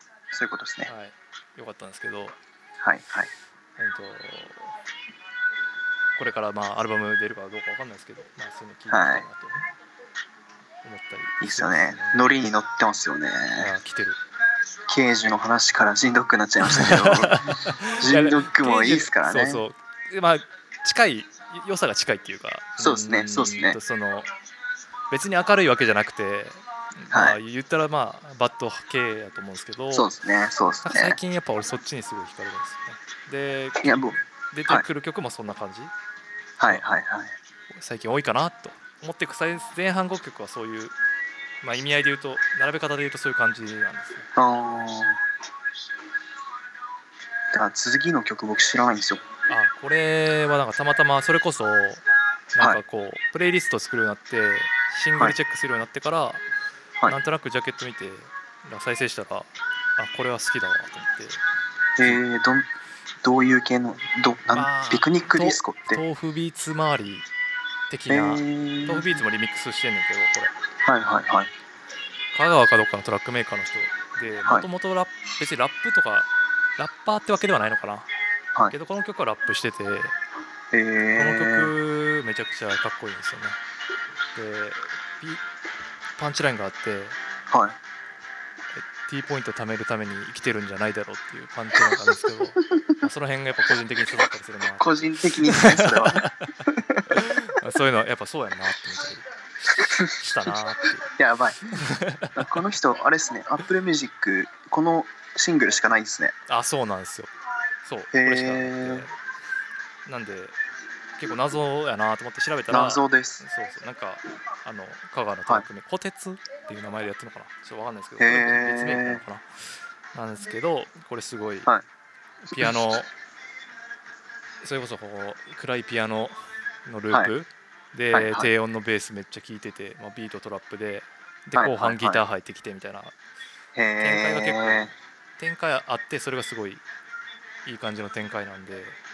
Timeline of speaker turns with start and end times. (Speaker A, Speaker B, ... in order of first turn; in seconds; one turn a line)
Speaker A: 0.3-0.9
Speaker B: 0.8-2.4
Speaker A: 2.8-3.3
Speaker B: 3.8-4.8
Speaker B: 6.2-9.7
Speaker A: 8.9-9.2
Speaker B: 10.8-12.3
Speaker A: 11.4-13.7
Speaker B: 13.6-14.2
Speaker A: 14.9-19.6
Speaker B: 16.6-24.3
Speaker A: 22.8-23.8
Speaker B: 25.1-30.1
Speaker A: 27.1-27.4
Speaker A: 29.9-31.2
Speaker B: 30.8-35.9
Speaker A: 33.8-34.1
Speaker A: 36.6-37.3
Speaker B: 37.7-40.9
Speaker B: 41.6-44.3
Speaker A: 44.4-45.2
Speaker A: 47.5-49.2
Speaker B: 49.5-52.0
Speaker B: 52.5-56.4
Speaker B: 57.1-61.4
Speaker A: 62.0-62.7
Speaker A: 63.2-66.0
Speaker B: 64.5-67.3
Speaker B: 67.9-70.5
Speaker A: 68.1-69.2
Speaker A: 70.8-71.5
Speaker B: 72.3-78.1
Speaker B: 78.7-80.1
Speaker A: 80.7-81.7
Speaker B: 81.2-83.6
Speaker B: 84.3-85.4
Speaker B: 86.2-87.2
Speaker A: 87.5-87.8
Speaker B: 88.7-94.8
Speaker A: 92.7-93.0
Speaker A: 94.8-97.2
Speaker B: 95.4-96.5
Speaker B: 97.1-101.0
Speaker A: 99.8-101.7
Speaker B: 101.6-102.6
Speaker A: 102.3-106.3
Speaker B: 106.5-107.3
Speaker B: 107.8-109.1
Speaker A: 108.1-109.0
Speaker B: 110.0-110.6
Speaker B: 111.2-121.7
Speaker A: 112.7-113.4
Speaker A: 118.2-119.2
Speaker B: 122.4-123.1
Speaker B: 124.6-133.1
Speaker A: 128.1-128.5
Speaker A: 131.6-132.2
Speaker A: 133.8-134.9
Speaker B: 134.0-136.8
Speaker B: 137.6-139.0